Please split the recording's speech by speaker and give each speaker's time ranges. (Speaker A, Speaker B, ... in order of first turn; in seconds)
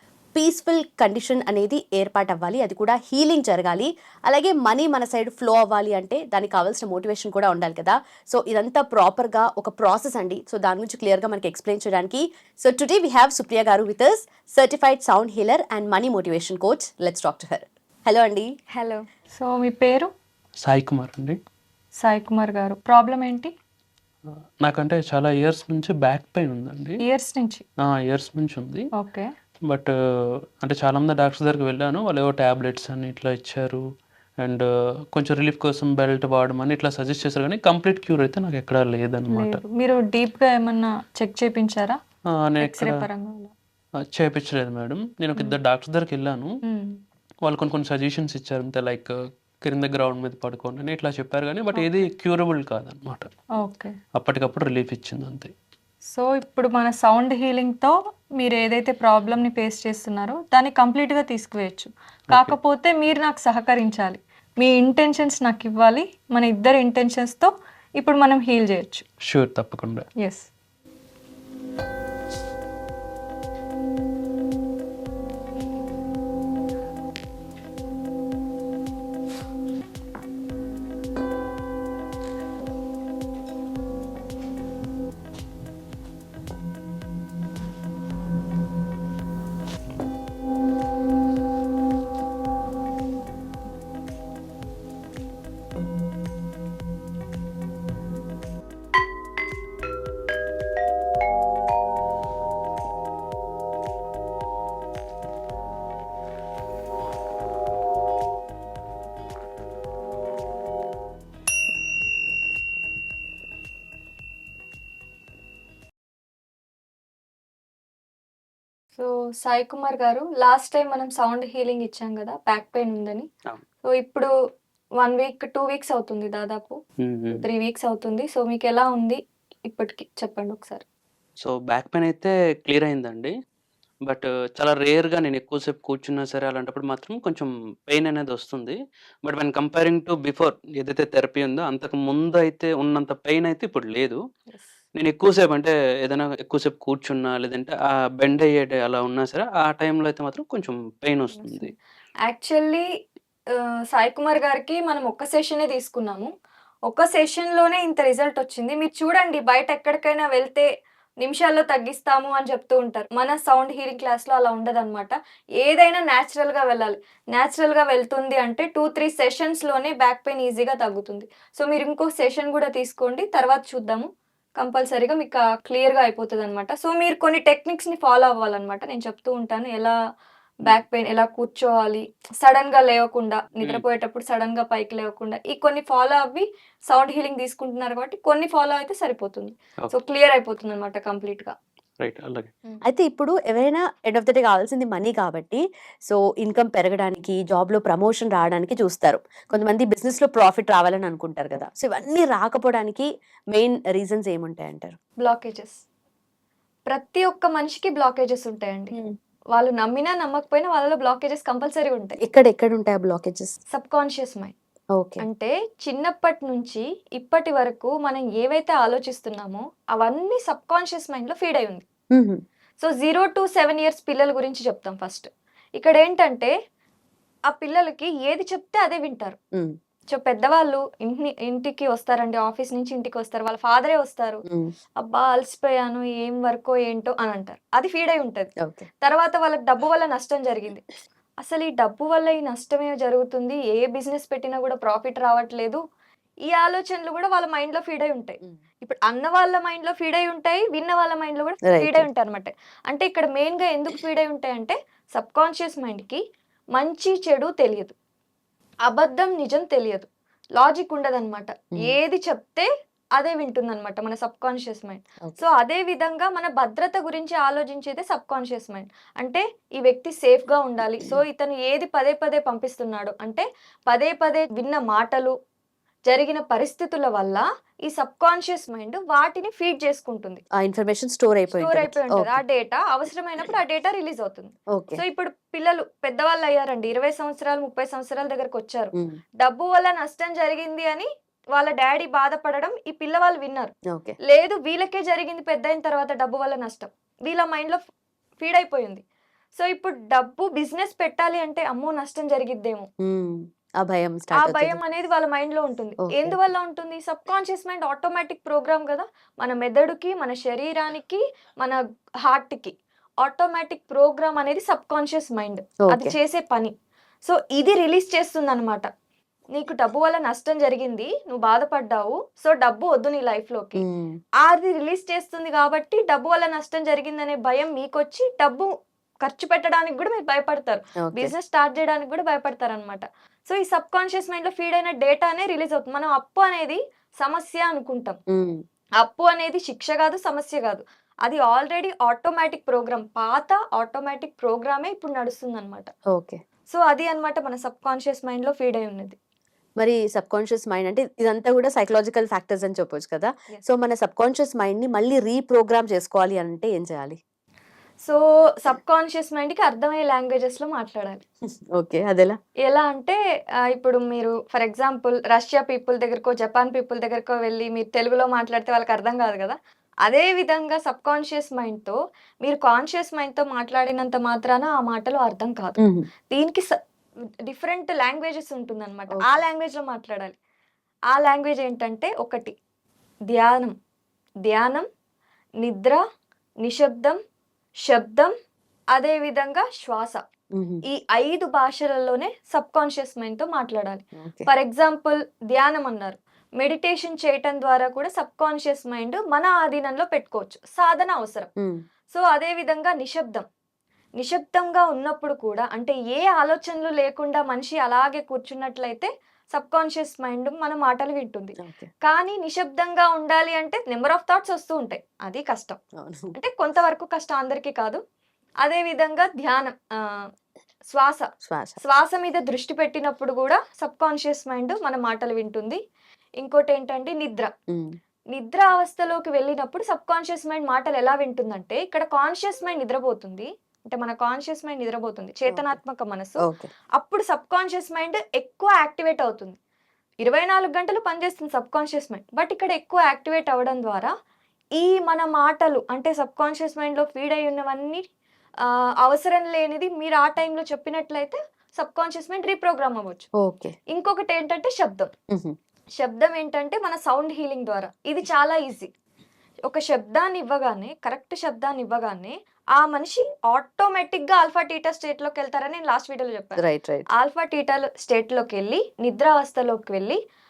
Speaker A: 0.3-18.5, 192.9-205.0, 212.2-213.6, 215.0-215.2, 222.1-222.4, 251.7-252.1, 280.5-282.4, 284.7-285.0, 303.0-304.8, 306.1-306.4, 323.8-324.2, 331.0-331.3, 338.3-338.6, 346.1-346.4, 349.8-357.2, 361.7-362.4, 375.8-376.1, 390.5-390.8, 394.2-394.5, 411.6-411.9, 416.0-416.3, 421.4-421.8, 427.7-427.9, 435.5-435.8, 453.4-453.8, 466.6-467.1
Speaker B: 18.7-20.1, 22.0-23.5, 27.0-27.6, 28.9-29.3, 39.3-42.0, 42.6-43.5, 46.6-47.0, 51.7-52.1, 53.6-54.0, 56.1-69.0, 70.2-70.5, 119.0-123.3, 123.8-124.3, 125.0-126.8, 127.4-130.8, 151.3-151.7, 152.3-152.8, 153.9-156.3, 156.9-160.7, 161.2-179.9, 180.6-191.5, 205.2-205.8, 206.9-208.9, 209.5-212.2, 213.7-214.5, 215.2-221.8, 222.8-226.5, 227.5-229.4, 230.1-234.4, 235.0-238.5, 239.0-240.8, 241.4-245.8, 246.5-256.2, 256.8-257.9, 258.8-275.3, 276.1-280.4, 281.6-293.7, 294.2-297.8, 298.4-299.0, 299.6-302.9, 304.4-316.7, 317.2-318.9, 319.6-323.8, 324.4-328.7, 329.2-338.2, 339.0-345.9, 346.7-349.1, 358.0-361.2, 362.6-363.1, 363.7-375.8, 376.3-376.7, 377.5-380.3, 381.1-382.5, 383.3-383.7, 384.5-384.8, 385.6-386.0, 386.6-387.2, 387.9-388.3, 388.9-390.2, 390.9-401.5, 402.1-403.4, 404.2-415.8, 416.3-418.0, 418.6-420.2, 420.9-421.3, 421.8-425.8, 426.4-427.5, 428.3-436.4, 437.0-439.6, 440.2-444.1, 444.8-448.0, 449.0-453.2, 453.9-455.1, 456.0-458.9, 459.6-466.6, 467.2-470.2
Speaker C: 20.6-21.4, 24.6-27.0, 27.8-28.9, 29.7-29.9, 30.6-33.8, 34.4-39.6, 42.3-43.1, 44.1-46.5, 47.5-49.1, 49.6-53.3, 54.1-55.5, 69.2-70.0, 127.0-127.4, 131.4-133.3, 134.1-144.2, 145.0-151.7, 192.0-192.5